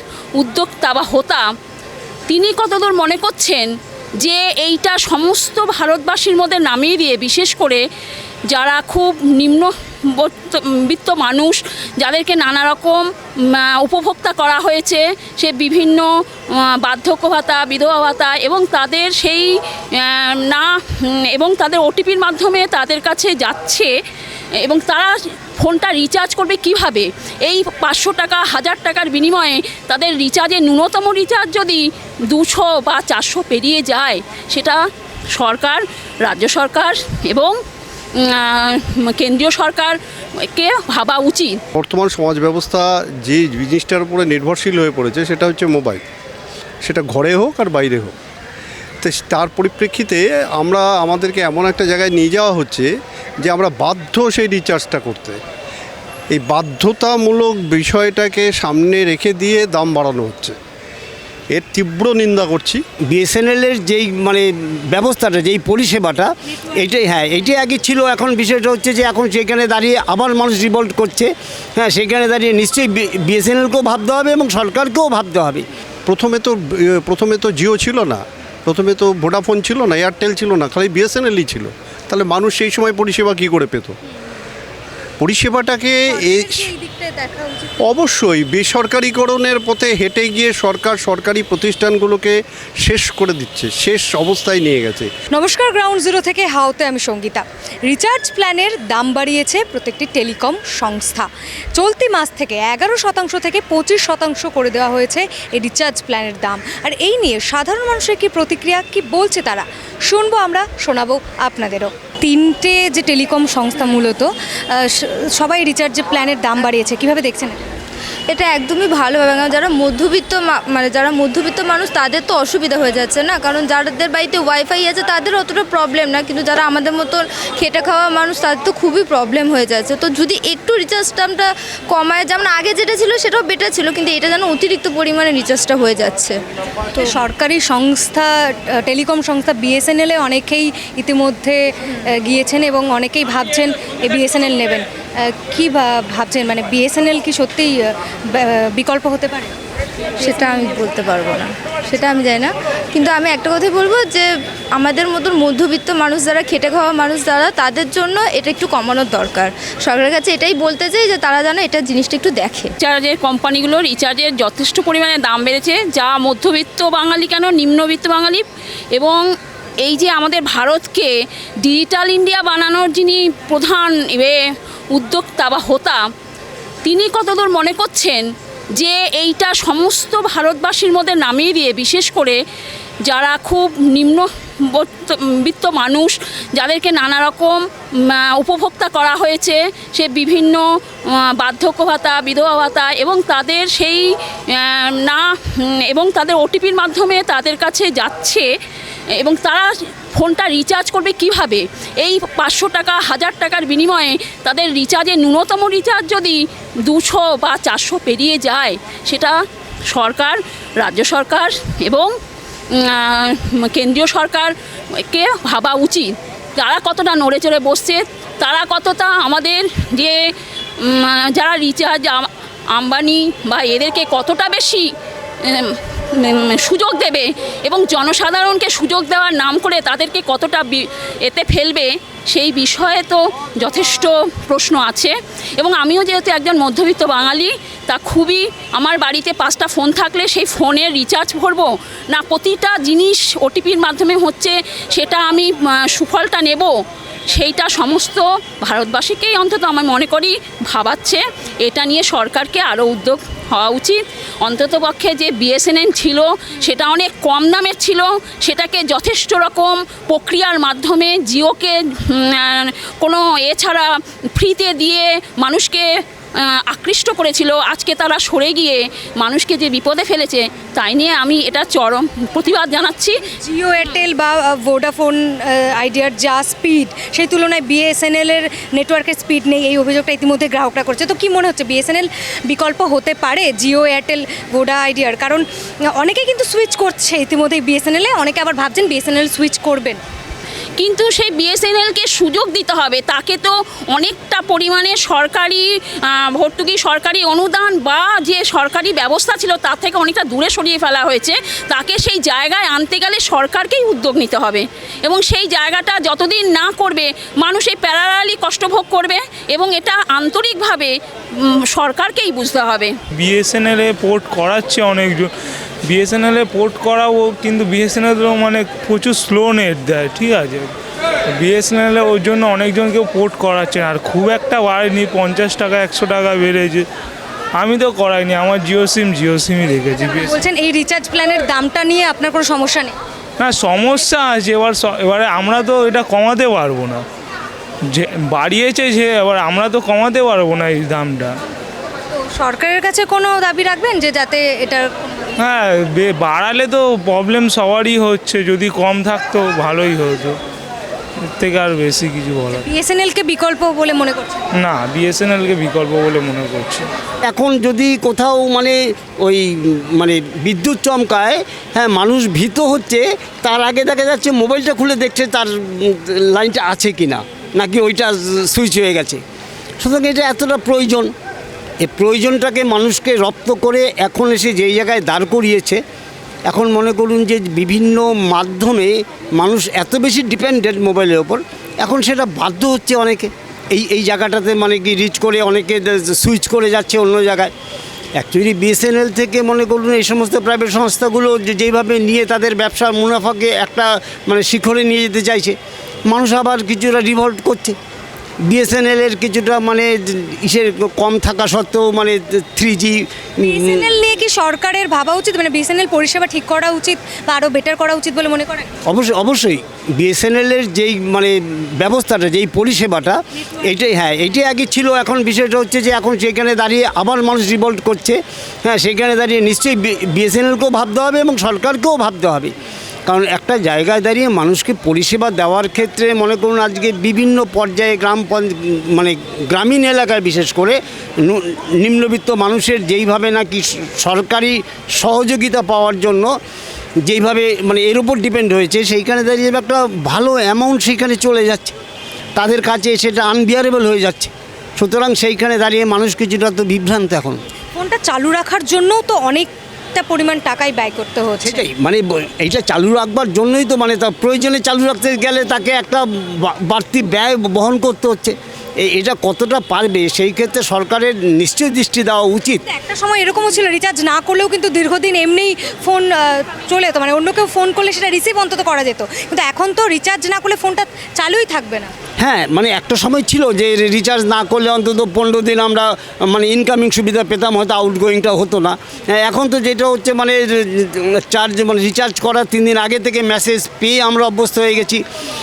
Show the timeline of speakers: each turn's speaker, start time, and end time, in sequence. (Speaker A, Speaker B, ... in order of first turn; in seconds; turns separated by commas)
Speaker A: 0.3-1.4, Speaker A: 2.3-3.7, Speaker A: 4.2-7.8, Speaker A: 8.5-16.1, Speaker A: 16.6-23.9, Speaker A: 24.6-34.8, Speaker A: 35.3-37.6, Speaker A: 38.1-41.6, Speaker B: 41.7-46.0, Speaker B: 46.8-48.1, Speaker B: 49.0-55.4, Speaker B: 56.3-60.5, Speaker B: 61.5-62.8, Speaker C: 63.0-75.7, Speaker B: 76.1-84.0, Speaker B: 85.2-86.7, Speaker D: 86.1-87.8, Speaker B: 87.8-95.1, Speaker D: 95.3-117.6, Speaker E: 118.3-136.4, Speaker D: 136.9-149.6, Speaker D: 150.2-150.8, Speaker E: 150.3-162.7, Speaker A: 162.8-169.2, Speaker A: 169.8-171.1, Speaker A: 171.6-174.4, Speaker A: 174.9-176.0, Speaker A: 176.8-178.2, Speaker A: 178.8-182.4, Speaker A: 183.1-190.6, Speaker A: 191.2-198.5, Speaker A: 199.2-209.4, Speaker A: 209.9-212.1, Speaker A: 212.7-220.2, Speaker A: 220.8-224.9, Speaker A: 225.4-246.7, Speaker A: 247.3-273.2, Speaker D: 273.4-290.0, Speaker A: 290.8-312.9, Speaker F: 313.2-315.3, Speaker F: 315.9-320.7, Speaker F: 321.3-326.9, Speaker F: 327.6-330.4, Speaker D: 330.2-332.9, Speaker F: 333.4-337.1, Speaker F: 337.9-341.4, Speaker D: 342.1-345.4, Speaker F: 345.4-350.4, Speaker F: 351.3-352.7, Speaker D: 352.5-354.4, Speaker F: 354.6-356.9, Speaker C: 357.2-369.2, Speaker C: 369.8-371.1, Speaker C: 371.8-375.8, Speaker C: 376.4-387.5, Speaker C: 388.2-397.8, Speaker C: 398.4-404.0, Speaker D: 403.4-408.7, Speaker C: 408.9-422.5, Speaker C: 423.1-436.3, Speaker C: 437.0-441.8, Speaker C: 442.4-447.4, Speaker D: 447.8-451.7, Speaker C: 451.4-462.6, Speaker D: 462.7-471.9, Speaker C: 472.2-485.0